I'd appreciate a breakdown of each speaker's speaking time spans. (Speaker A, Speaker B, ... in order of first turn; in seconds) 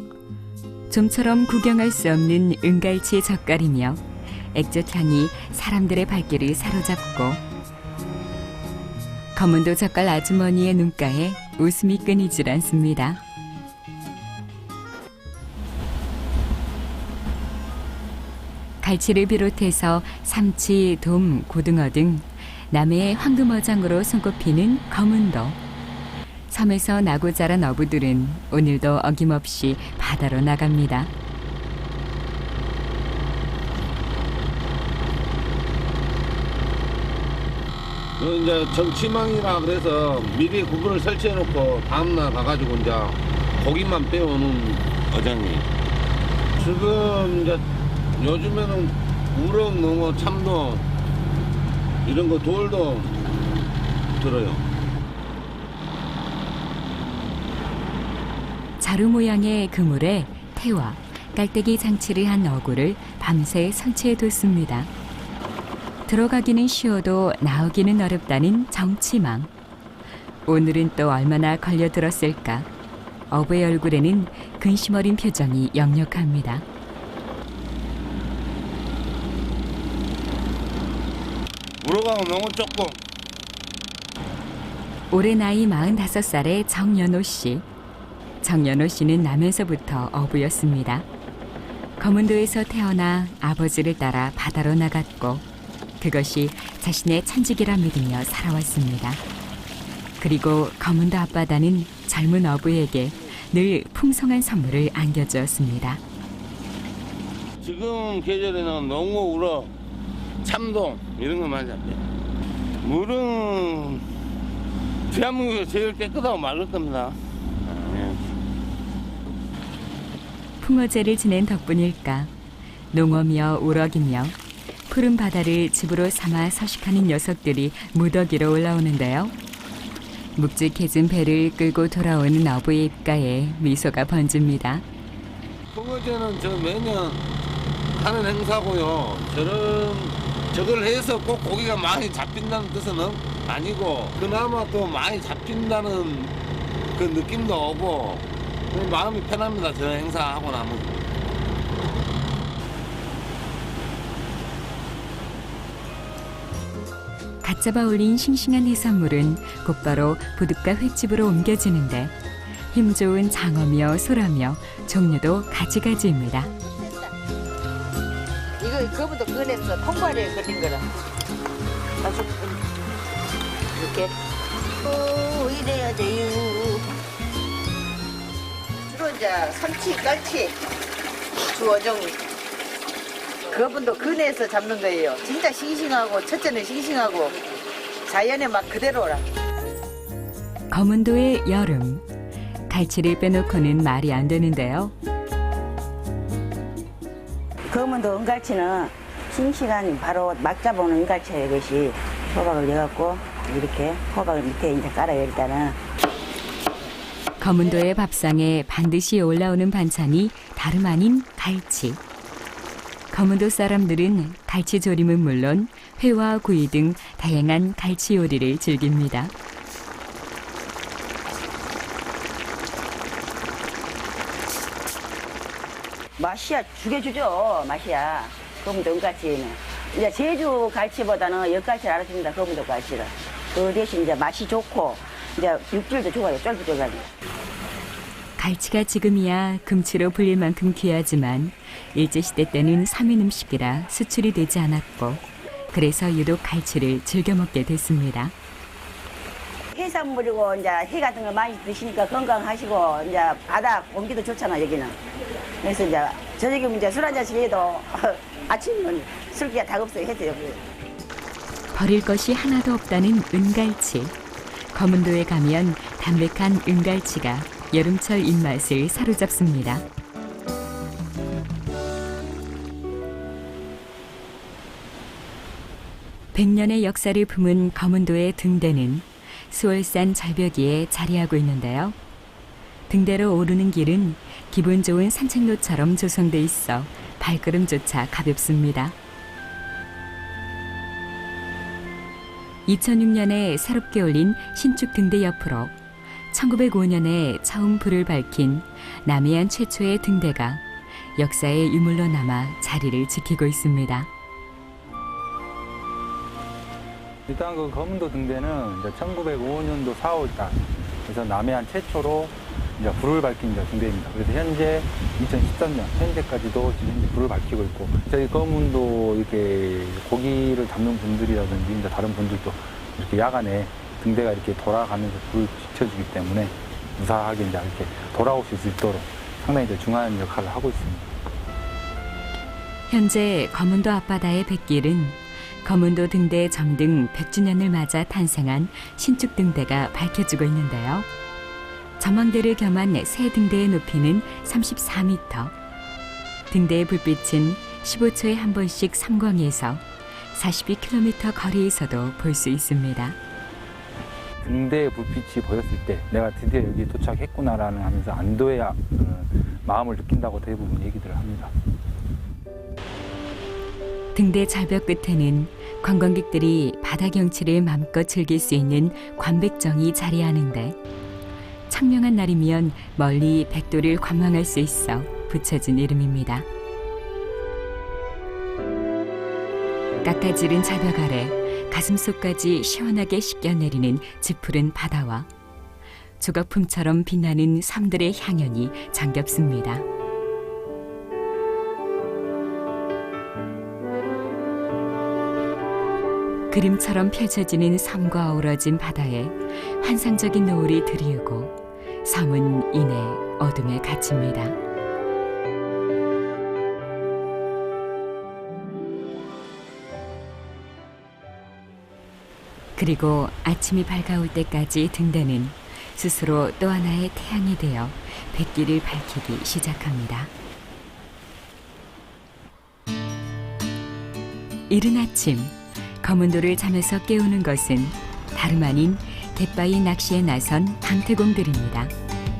Speaker A: 0.9-4.0, 4.5-7.4, 9.3-13.2, 18.8-25.6, 26.5-31.1, 58.8-64.9, 66.1-69.5, 70.5-72.7, 73.3-76.7, 85.1-87.6, 88.4-91.0, 92.0-95.4, 96.0-99.2, 100.2-106.0, 120.6-122.3, 122.9-124.3, 124.9-129.3, 130.3-134.8, 157.4-162.1, 162.7-166.5, 190.7-192.0, 192.7-194.9, 207.4-212.0, 213.1-219.3, 238.4-248.3, 261.7-264.1, 264.7-269.8, 276.3-281.9, 282.9-288.9, 292.6-295.7, 296.3-300.6, 301.2-304.1, 332.9-341.1, 342.0-345.5, 346.5-349.8, 350.3-353.2, 364.1-370.8, 371.7-376.5, 380.0-385.3, 386.2-389.9, 396.5-404.6, 412.8-420.3, 424.7-431.9
Speaker B: 38.2-45.7, 46.6-47.6, 48.2-50.8, 52.0-53.2, 54.2-54.6, 81.8-83.0, 107.6-109.7, 110.4-112.0, 112.8-114.0, 115.1-118.2, 135.7-137.2, 137.9-146.3, 146.9-151.0
Speaker C: 168.6-170.8, 172.0-172.6, 173.8-174.1, 174.8-176.8, 178.9-180.6, 181.4-182.2, 183.5-187.4, 188.1-189.2
Speaker D: 197.7-205.8, 226.2-237.1, 249.7-254.9, 255.6-260.6
Speaker E: 307.3-331.1, 354.4-361.5